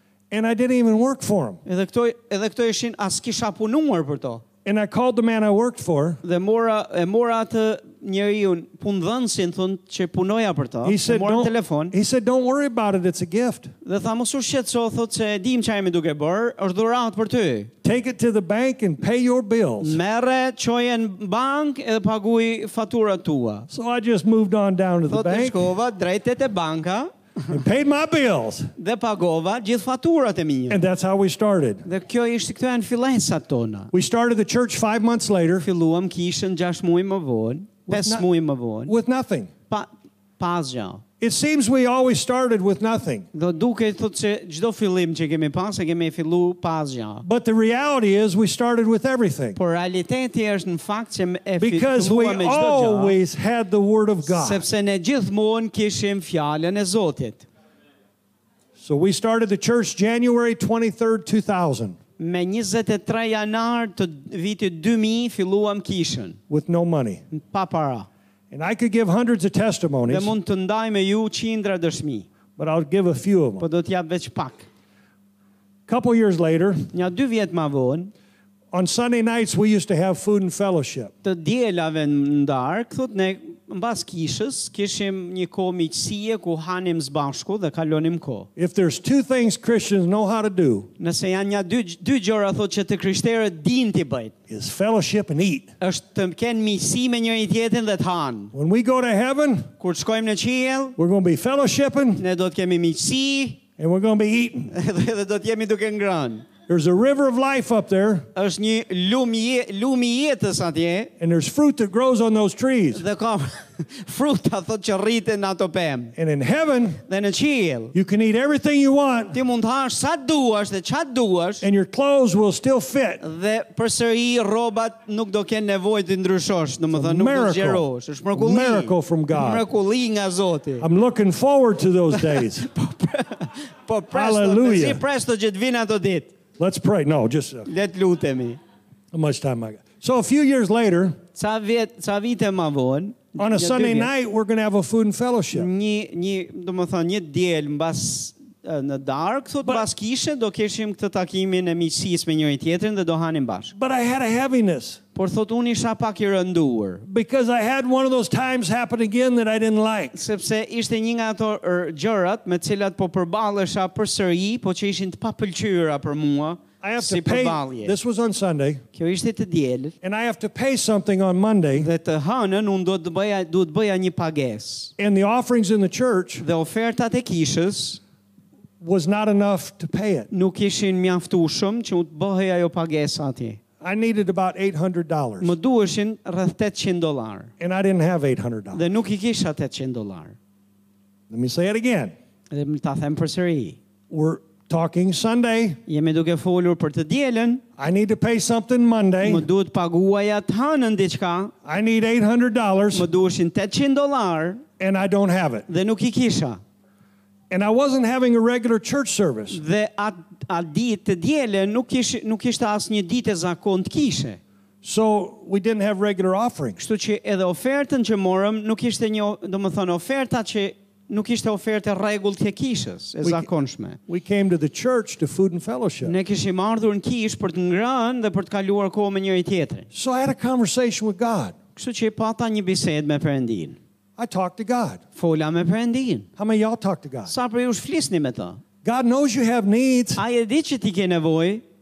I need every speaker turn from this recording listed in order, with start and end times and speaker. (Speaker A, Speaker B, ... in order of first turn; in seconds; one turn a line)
Speaker A: 0.3-1.6
Speaker B: 1.6-4.4
Speaker A: 4.6-6.2
Speaker B: 6.2-11.9
Speaker A: 10.8-13.7
Speaker B: 13.8-17.7
Speaker A: 17.8-20.0
Speaker B: 19.8-23.7
Speaker A: 23.7-25.6
Speaker B: 25.1-27.1
Speaker A: 27.5-28.7
Speaker B: 28.8-30.8
Speaker A: 30.7-31.8
Speaker B: 31.8-33.9
Speaker A: 33.9-35.6
Speaker B: 35.6-38.9
Speaker A: 37.9-38.2
Speaker A: 38.9-39.5
Speaker B: 39.7-41.0
Speaker A: 41.2-43.3
Speaker B: 43.3-47.2
Speaker A: 47.2-49.6
Speaker B: 49.5-53.1
Speaker A: 51.6-54.6
Speaker B: 54.2-57.5
Speaker A: 58.8-62.0
Speaker B: 62.2-66.4
Speaker A: 66.5-67.2
Speaker B: 67.3-68.1
Speaker A: 68.5-70.3
Speaker B: 70.1-72.3
Speaker A: 72.6-73.6
Speaker B: 73.6-74.7
Speaker A: 75.9-76.9
Speaker B: 76.9-78.1
Speaker A: 78.7-81.1
Speaker B: 81.2-88.5
Speaker A: 88.5-90.9
Speaker B: 91.0-94.3
Speaker A: 94.5-95.7
Speaker B: 95.8-98.5
Speaker A: 98.5-99.7
Speaker B: 99.8-101.0
Speaker A: 101.0-102.2
Speaker B: 102.2-103.6
Speaker A: 103.8-104.7
Speaker B: 104.7-106.5
Speaker A: 106.7-108.3
Speaker B: 108.3-111.1
Speaker A: 111.2-113.0
Speaker B: 112.9-116.1
Speaker A: 116.1-117.0
Speaker B: 117.1-117.9
Speaker A: 117.9-119.4
Speaker B: 119.3-121.7
Speaker A: 121.6-123.2
Speaker B: 123.2-130.8
Speaker A: 126.9-129.6
Speaker A: 130.8-132.6
Speaker B: 132.1-136.3
Speaker A: 134.1-135.0
Speaker A: 136.6-137.7
Speaker B: 137.7-138.6
Speaker A: 139.1-141.2
Speaker B: 141.3-144.1
Speaker A: 143.4-145.7
Speaker B: 145.5-153.7
Speaker A: 153.7-155.0
Speaker B: 155.1-157.1
Speaker A: 157.1-160.1
Speaker B: 160.1-167.9
Speaker A: 166.8-168.8
Speaker B: 168.9-169.9
Speaker A: 170.0-171.9
Speaker B: 171.7-174.9
Speaker A: 175.0-176.4
Speaker B: 176.4-178.0
Speaker A: 178.8-180.3
Speaker B: 180.3-183.6
Speaker A: 183.8-185.5
Speaker B: 185.4-187.5
Speaker A: 187.6-188.8
Speaker B: 188.7-190.3
Speaker A: 191.3-192.1
Speaker B: 192.5-193.8
Speaker A: 194.1-195.8
Speaker B: 195.9-197.6
Speaker A: 197.8-199.4
Speaker B: 199.2-201.5
Speaker A: 201.6-203.1
Speaker B: 202.9-204.6
Speaker A: 204.8-205.7
Speaker B: 205.7-206.6
Speaker A: 207.5-209.6
Speaker B: 209.5-214.4
Speaker A: 214.8-216.8
Speaker B: 216.8-224.0
Speaker A: 223.2-223.5
Speaker A: 224.1-226.1
Speaker B: 226.0-229.9
Speaker A: 229.9-231.5
Speaker B: 231.8-233.8
Speaker A: 234.2-235.0
Speaker B: 235.1-236.3
Speaker A: 236.4-237.3
Speaker B: 237.3-238.6
Speaker A: 238.8-240.2
Speaker B: 240.2-241.6